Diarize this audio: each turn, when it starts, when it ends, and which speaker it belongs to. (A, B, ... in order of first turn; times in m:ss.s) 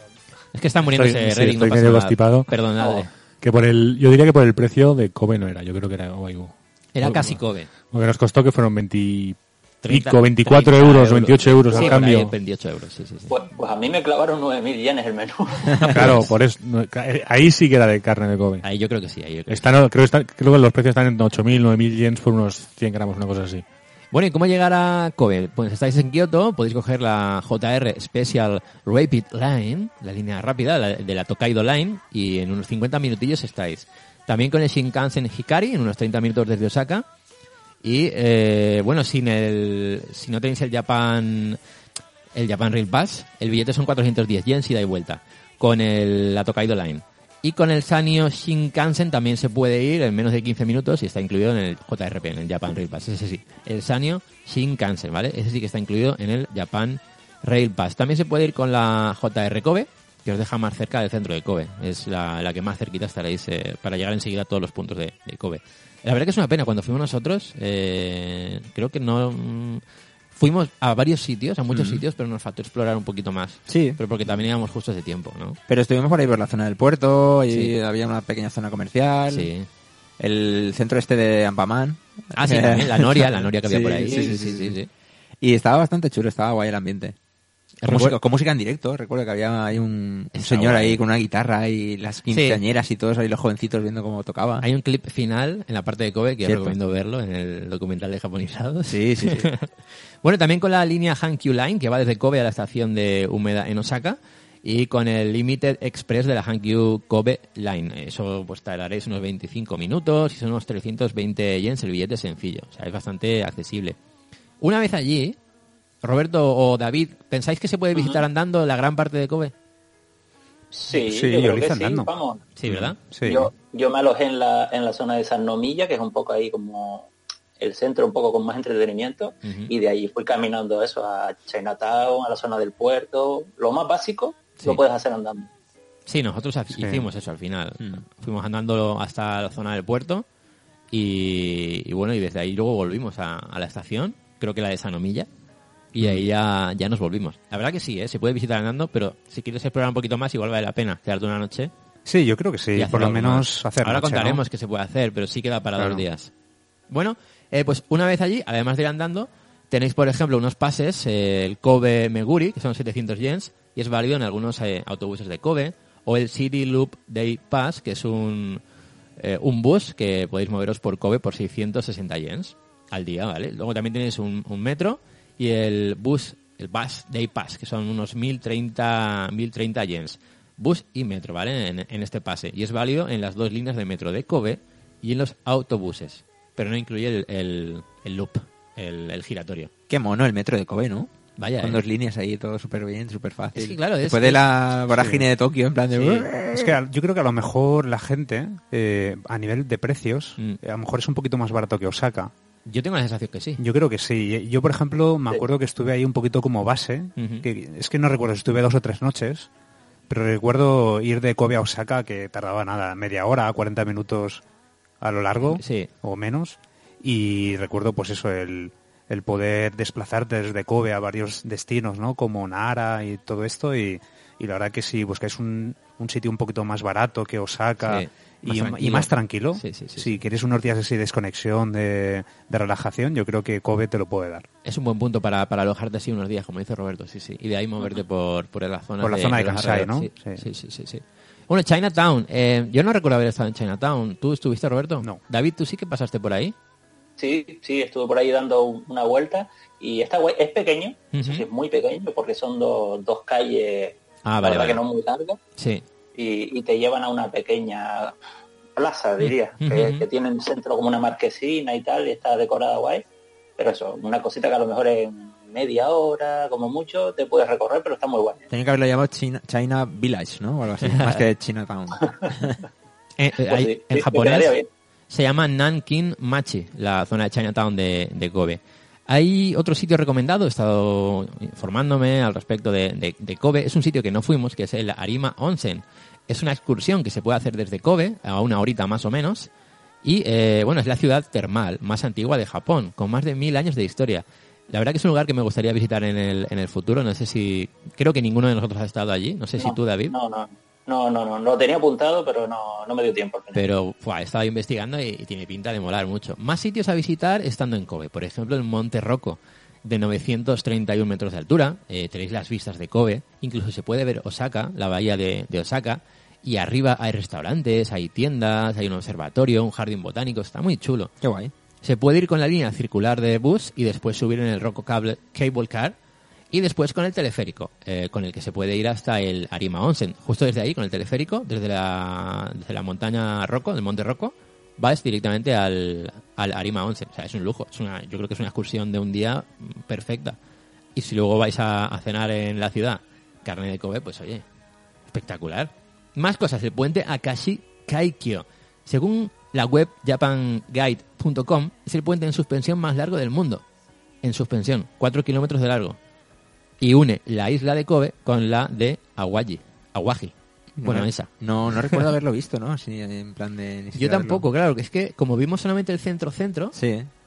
0:00.5-0:03.1 A
0:00.8-0:02.5 B
0:03.4-0:12.3 B
0:06.9-0:07.7 A
0:09.8-0:13.3 A
0:11.7-0:12.0 C
0:13.3-0:16.1 C
0:15.8-0:16.3 A
0:15.8-0:18.6 B
0:18.6-0:19.6 A
0:19.5-0:23.6 B
0:24.1-0:37.0 A
0:37.8-0:41.6 A
0:42.3-1:09.8 A
1:10.3-1:15.6 A
1:11.7-1:12.0 D
1:13.7-1:14.4 D
1:15.7-1:19.5 D
1:17.5-1:17.7 A
1:19.3-1:19.7 A
1:20.2-1:24.8 D
1:22.3-1:24.9 A
1:25.4-1:27.1 D
1:27.8-1:28.2 A
1:27.9-1:34.6 D
1:30.3-1:31.0 A
1:32.3-1:32.6 A
1:34.6-1:39.7 A
1:36.4-1:36.8 D
1:38.9-1:39.5 D
1:40.2-1:54.0 A
1:54.6-1:55.4 A
1:56.0-1:59.5 A
1:57.9-1:58.2 C
2:00.7-2:02.4 C
2:00.9-2:02.1 E
2:02.6-2:03.0 A
2:02.6-2:03.5 E
2:03.2-2:15.5 C
2:09.4-2:09.7 A
2:16.0-2:20.2 A
2:16.7-2:17.1 D
2:20.9-2:25.3 A
2:25.9-2:31.7 A
2:32.0-2:34.4 E
2:32.7-2:36.3 A
2:35.8-2:36.0 E
2:36.9-2:48.6 A
2:49.2-3:09.7 A
3:09.9-3:11.1 D
3:11.4-3:11.8 A
3:11.6-3:16.7 D
3:13.5-3:15.3 A
3:16.0-3:22.3 E
3:22.6-3:23.6 A
3:23.6-3:29.5 E
3:27.2-3:27.4 A
3:30.1-3:34.4 E
3:35.0-3:54.4 E
3:35.4-3:35.9 A
3:47.8-3:50.2 A
3:54.6-4:06.5 A
3:59.0-4:00.4 E
4:07.2-4:15.4 C
4:11.1-4:11.4 A
4:14.2-4:14.8 A
4:15.6-4:15.8 A
4:16.1-4:18.2 C
4:18.7-4:23.0 C
4:19.2-4:20.0 A
4:23.6-4:28.4 C
4:28.5-4:32.6 D
4:30.8-4:31.3 A
4:33.2-4:34.5 A
4:33.4-4:34.7 C
4:35.1-4:49.5 A
4:50.0-5:00.1 A
4:59.6-5:03.6 C
5:03.5-5:21.1 A
5:21.2-5:21.5 D
5:21.8-5:26.0 A
5:26.5-5:40.4 A
5:40.9-5:44.4 A
5:45.1-5:53.6 A
5:54.2-5:56.0 A
5:56.8-6:01.3 A
6:00.8-6:04.5 D
6:03.9-6:06.8 A
6:06.7-6:07.1 D